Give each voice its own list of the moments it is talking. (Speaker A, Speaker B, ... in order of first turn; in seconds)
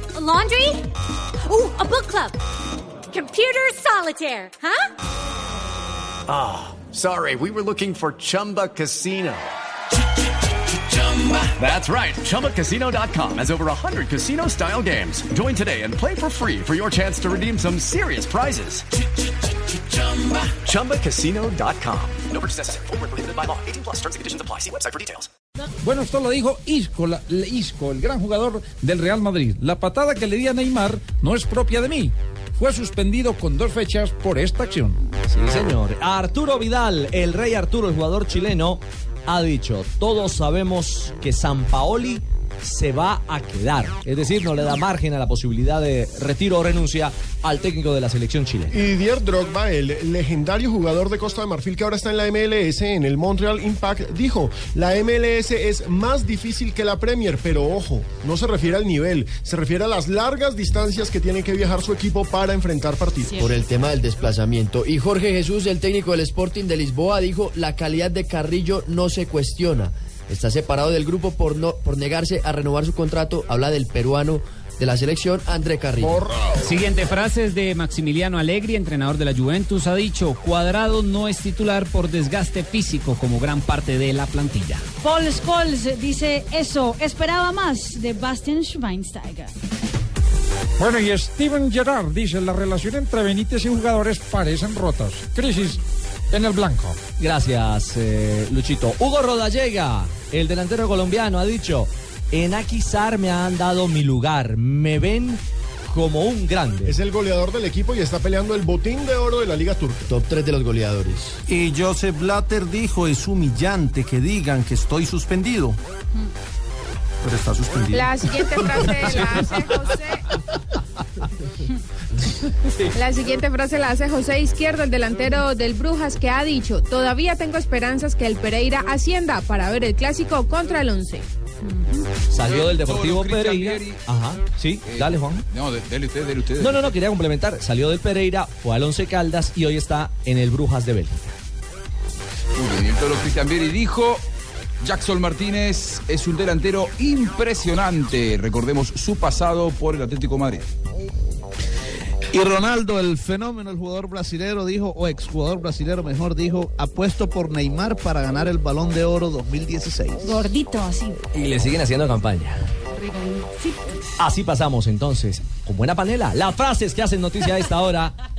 Speaker A: 0.1-0.8, 1.5-2.4, 3.1-4.9
Speaker B: 6.3-9.5, 11.0-18.9, 20.0-25.3
Speaker C: 25.8-35.0, 90.8-95.8, 96.3-97.0
Speaker D: 35.3-48.8, 97.2-107.0, 132.3-135.4, 136.6-141.4, 161.3-162.6, 164.2-168.2
Speaker E: 48.7-63.4, 76.0-76.6, 106.8-110.1
Speaker F: 63.3-76.2, 110.1-111.3
Speaker G: 76.6-84.8
Speaker H: 85.0-89.5
Speaker I: 111.5-115.8, 117.2-119.7
Speaker J: 117.9-120.2, 122.9-131.2
Speaker K: 132.4-134.0, 134.9-136.9, 142.6-144.2, 144.8-150.7
Speaker L: 152.3-160.6